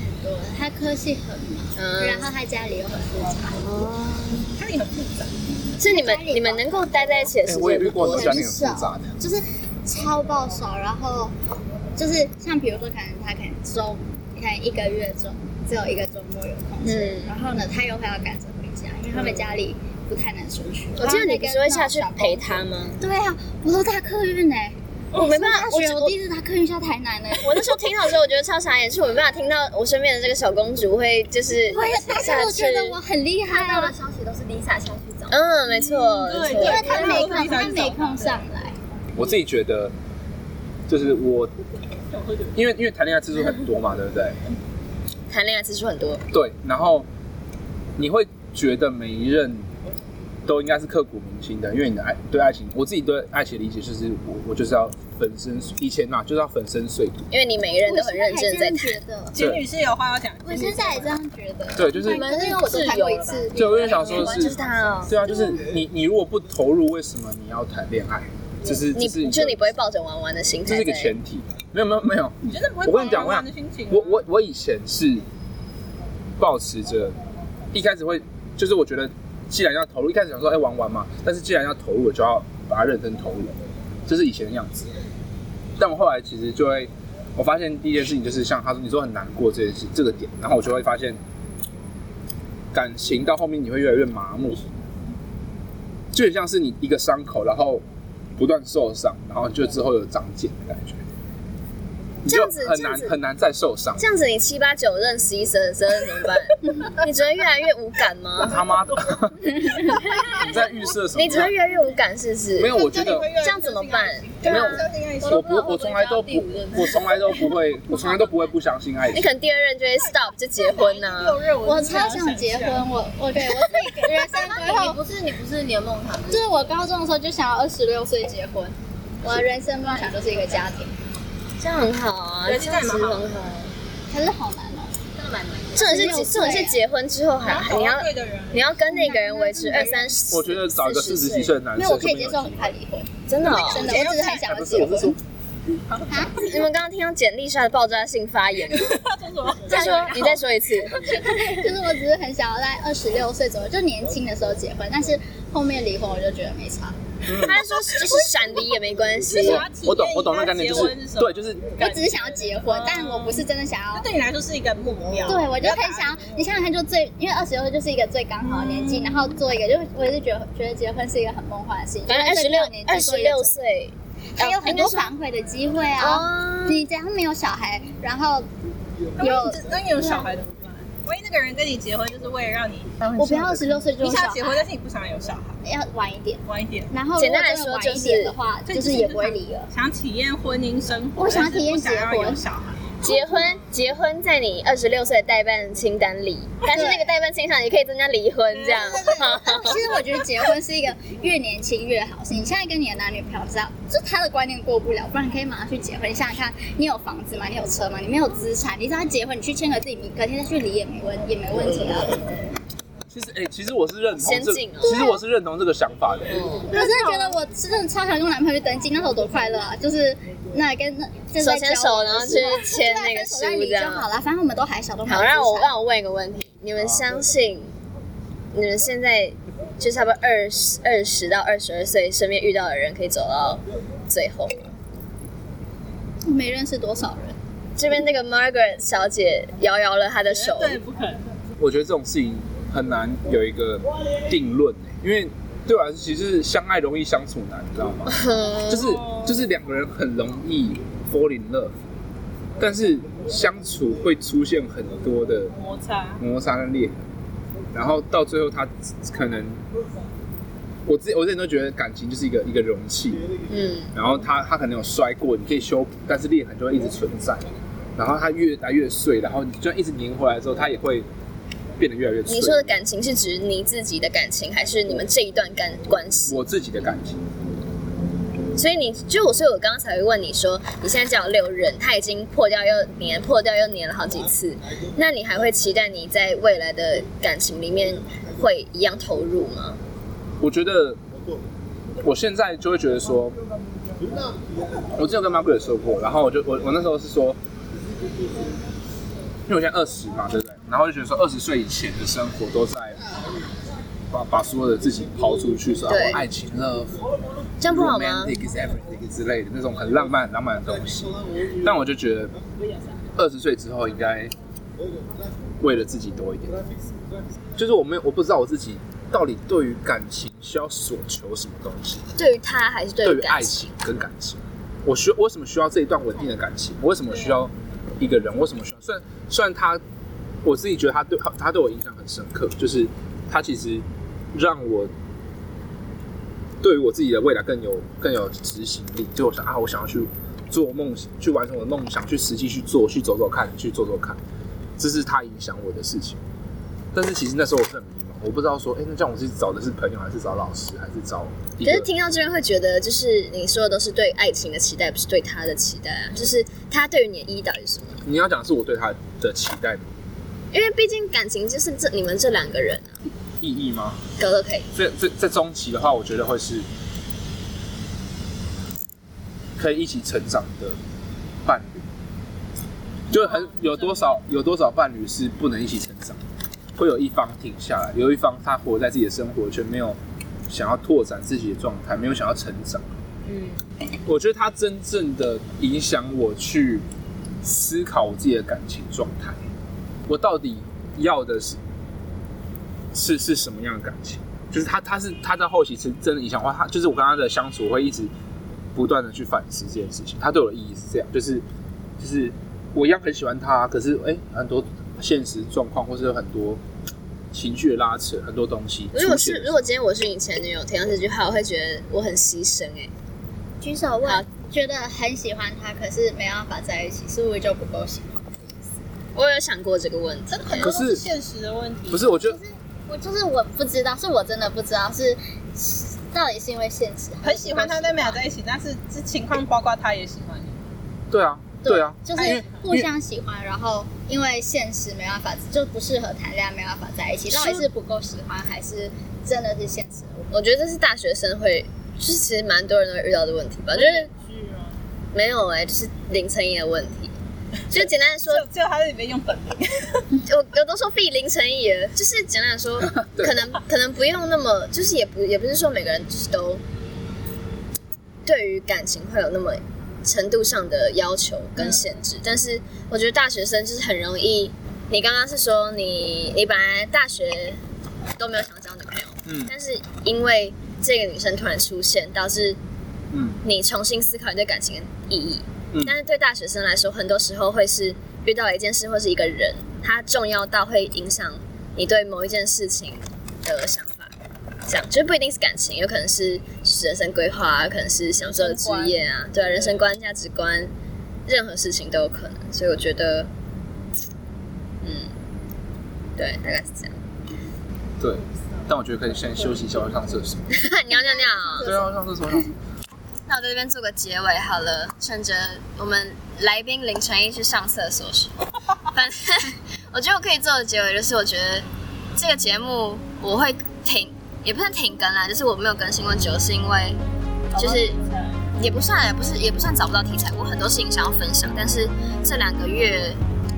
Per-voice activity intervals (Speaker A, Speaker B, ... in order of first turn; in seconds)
Speaker A: 0.2-3.6, 5.8-6.7, 7.9-11.3, 11.9-22.4, 23.0-27.6, 31.7-34.0, 36.5-38.8, 57.9-59.4, 60.4-64.4, 121.6-125.0, 126.2-130.9, 134.1-134.9, 135.8-136.8, 138.8-140.2, 141.7-145.2, 146.1-146.4, 149.7-150.4, 150.9-156.9, 161.8-164.1, 165.2-173.5, 174.4-178.5, 179.2-180.3, 183.1-184.7, 185.6-189.7, 191.2-192.4, 196.7-197.1, 199.0-212.5, 216.7-225.7, 236.2-237.4, 413.6-418.6, 422.2-428.2, 431.6-440.3, 488.2-489.0, 501.1-501.6
Speaker B: 1.8-2.3, 3.6-4.5, 5.8-8.5, 16.8-17.3, 21.0-23.0, 25.2-26.1, 27.4-33.0, 35.3-37.4, 45.3-46.2, 57.3-59.0, 62.4-62.7, 63.6-65.1, 68.9-71.1, 102.2-103.2, 104.0-108.6, 109.8-110.4, 111.1-114.8, 119.1-121.4, 131.6-133.7, 135.8-141.5, 143.3-144.0, 146.4-149.0, 149.7-151.1, 157.3-159.7, 172.1-175.1, 176.0-176.8, 187.2-188.3, 193.0-199.8, 214.2-215.2, 216.3-217.3, 221.4-224.1, 225.0-227.7, 228.5-234.7, 237.8-240.8, 248.1-248.9, 263.5-263.9, 272.2-276.4, 278.5-289.8, 305.9-306.2, 307.6-308.3, 322.1-323.6, 351.6-358.0, 360.5-363.0, 364.2-364.7, 408.9-412.9, 419.1-420.7, 440.3-444.1, 445.1-447.1, 447.7-448.4, 450.1-456.6, 458.2-467.6, 468.2-472.6, 473.4-484.1, 484.7-490.7, 491.2-493.3, 494.8-495.1, 496.2-496.9, 500.5-501.7, 503.3-517.0, 517.5-518.0, 518.5-523.2
Speaker C: 4.6-5.3, 36.2-38.2, 42.1-42.4, 59.3-61.2, 72.4-74.2, 112.7-115.7, 120.0-122.9, 132.4-133.3, 137.4-138.7, 139.7-139.9, 143.8-144.4, 145.9-146.4, 148.7-150.1, 157.5-158.6, 159.3-166.3, 168.5-169.1, 179.2-185.6, 186.4-186.9, 188.6-192.8, 198.5-199.7, 240.3-241.2, 248.7-249.4, 255.6-256.2, 373.1-373.7, 420.3-422.2, 427.2-430.6, 432.1-432.5, 443.7-444.8, 448.3-450.1, 517.5-518.4
Speaker D: 7.4-9.2, 39.1-39.9, 40.9-41.5, 42.5-44.4, 46.3-47.0, 48.0-49.7, 50.5-57.2, 59.4-59.6, 61.7-62.3, 63.5-64.5, 65.1-69.7, 70.6-75.2, 76.4-77.2, 77.7-84.9, 85.8-91.2, 92.7-94.7, 96.1-97.8, 98.4-101.0, 102.2-104.0, 108.4-109.5, 110.3-111.5, 112.6-113.3, 114.4-119.3, 140.3-142.7, 144.4-145.2, 157.3-157.6, 159.4-161.8, 213.1-216.4, 226.8-227.0, 241.6-248.1, 248.7-251.7, 252.6-255.5, 256.2-257.0, 257.7-259.6, 260.9-263.2, 263.9-271.1, 271.8-272.7, 276.2-277.2, 290.4-291.0, 292.0-293.4, 294.9-297.4, 299.5-303.0, 304.1-307.0, 307.7-311.1, 311.6-312.3, 313.2-314.3, 315.6-316.6, 317.5-322.0, 323.0-329.8, 330.4-334.9, 336.6-344.2, 344.8-346.2, 346.9-351.9, 358.0-359.9, 363.4-364.0, 364.7-366.7, 369.6-370.8, 371.4-371.8, 373.1-376.2, 376.8-380.0, 380.5-382.9, 384.1-386.8, 387.4-389.4, 390.1-391.6, 392.9-398.1, 398.7-401.4, 402.0-406.6, 407.3-409.6, 420.6-421.1, 421.9-422.4, 431.1-432.9, 452.8-453.4, 469.2-469.5, 473.1-473.4, 498.0-500.4, 501.6-502.5
Speaker E: 32.1-32.5, 33.5-37.3, 62.0-65.1, 115.3-117.4, 123.9-126.5, 130.1-130.6, 135.2-136.1